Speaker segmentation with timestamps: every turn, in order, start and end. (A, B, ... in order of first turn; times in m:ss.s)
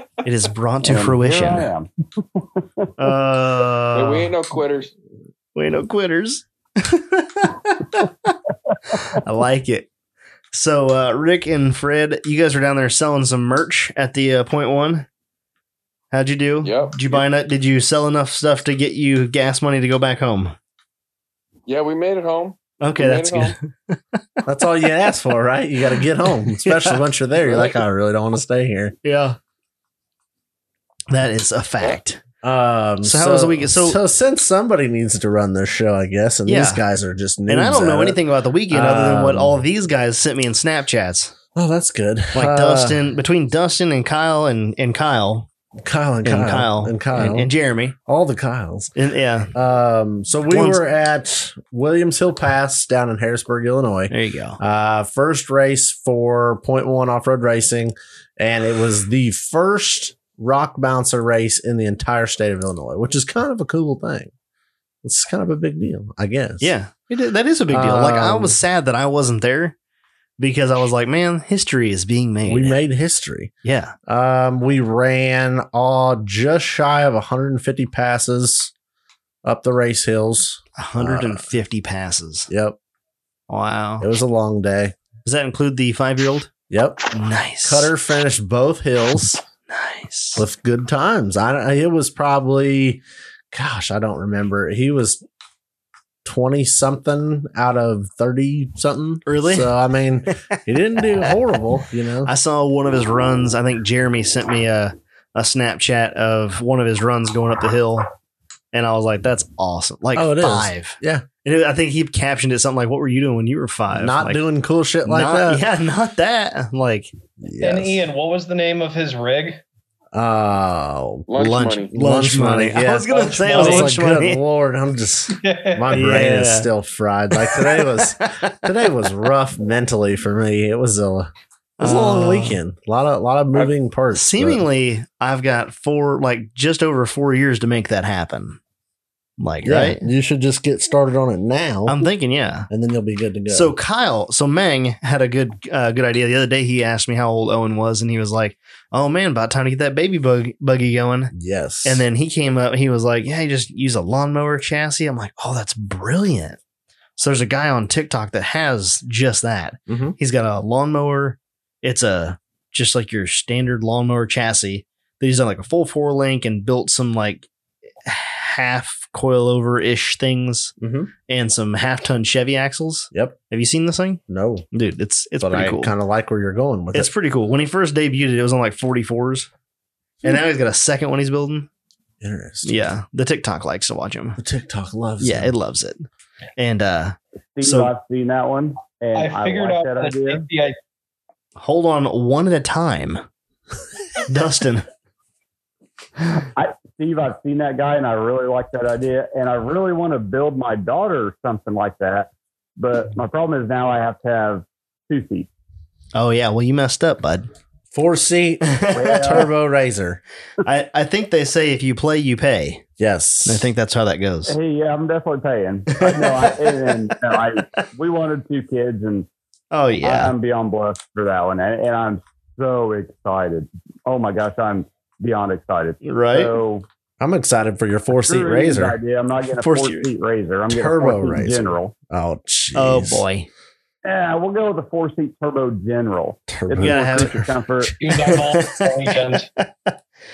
0:00.2-0:01.7 A
0:00.8-0:02.8 B
0:03.0-0:04.3 A
0:03.9-0:04.9 C
0:05.5-0:08.4 A
0:08.9-0:09.9 A
0:10.5-0:15.1 A
0:16.1-0:20.6 A
0:16.6-0:17.2 C
0:21.7-0:23.6 C
0:22.8-0:24.2 A
0:24.4-0:28.9 D
0:26.2-0:27.0 A
0:29.0-0:29.4 A
0:31.1-0:32.2 A
0:32.4-0:39.6 D
0:33.0-0:34.0 A
0:36.4-0:36.8 A
0:37.5-0:41.3 A
0:41.5-0:43.0 D
0:42.3-0:45.5 A
0:45.8-0:47.5 D
0:46.2-0:48.0 A
0:48.0-0:48.9 D
0:49.0-0:49.5 A
0:49.5-1:04.3 D
0:50.5-0:50.8 A
0:54.1-0:54.6 A
1:05.0-1:06.7 D
1:06.6-1:09.7 A
1:07.7-1:08.6 D
1:10.4-1:12.8 A
1:12.4-1:13.5 D
1:13.6-1:13.9 A
1:14.1-1:18.7 D
1:19.4-1:21.5 D
1:20.8-1:22.5 A
1:22.5-1:22.8 D
1:23.5-1:24.1 A
1:24.0-1:25.0 D
1:25.2-1:26.5 A
1:26.7-1:27.0 D
1:27.1-1:27.9 A
1:27.6-1:29.4 D
1:29.7-1:30.4 A
1:30.4-1:35.2 D
1:36.2-1:42.3 D
1:39.2-1:39.7 A
1:42.2-1:48.1 A
1:48.7-1:54.4 A
1:50.1-1:51.2 D
1:53.9-1:55.6 D
1:55.0-1:57.1 A
1:57.4-1:58.0 D
1:57.6-1:59.6 E
2:00.1-2:01.3 D
2:01.3-2:01.9 C
2:01.3-2:04.4 A
2:01.9-2:14.6 D
2:03.1-2:03.9 E
2:05.3-2:06.0 E
2:05.9-2:06.7 A
2:07.4-2:08.7 A
2:11.8-2:12.6 A
2:14.1-2:18.6 A
2:19.4-2:20.0 A
2:19.6-2:22.0 D
2:21.9-2:22.7 A
2:22.7-2:23.7 D
2:23.5-2:31.3 A
2:31.3-2:32.0 D
2:31.8-2:36.6 A
2:37.2-2:47.5 A
2:39.9-2:40.2 D
2:48.0-2:50.7 A
2:50.8-2:51.1 D
2:51.3-2:54.2 A
2:53.1-2:53.4 D
2:54.3-2:54.6 D
2:54.7-2:55.9 A
2:55.4-2:57.1 D
2:56.9-2:59.5 A
3:00.2-3:01.7 A
3:02.2-3:02.9 D
3:02.6-3:04.4 A
3:04.4-3:05.5 D
3:05.2-3:06.0 A
3:06.6-3:07.9 A
3:07.5-3:10.4 B
3:09.1-3:10.8 E
3:11.6-3:13.2 A
3:14.2-3:14.8 A
3:16.4-3:25.5 B
3:26.1-3:27.5 A
3:27.9-3:30.2 D
3:28.6-3:29.3 A
3:28.9-3:29.5 B
3:30.6-3:32.8 A
3:33.0-3:33.7 D
3:33.4-3:34.5 A
3:34.5-3:39.3 B
3:36.0-3:36.9 A
3:39.7-3:40.3 A
3:40.0-3:46.8 B
3:46.0-3:46.6 A
3:47.2-3:49.0 D
3:48.2-3:51.9 B
3:49.6-3:50.1 A
3:50.7-3:53.2 D
3:52.7-3:53.5 A
3:54.0-3:57.9 B
3:56.5-3:57.9 D
3:56.8-3:57.3 A
3:58.0-3:59.5 E
3:58.1-3:59.9 A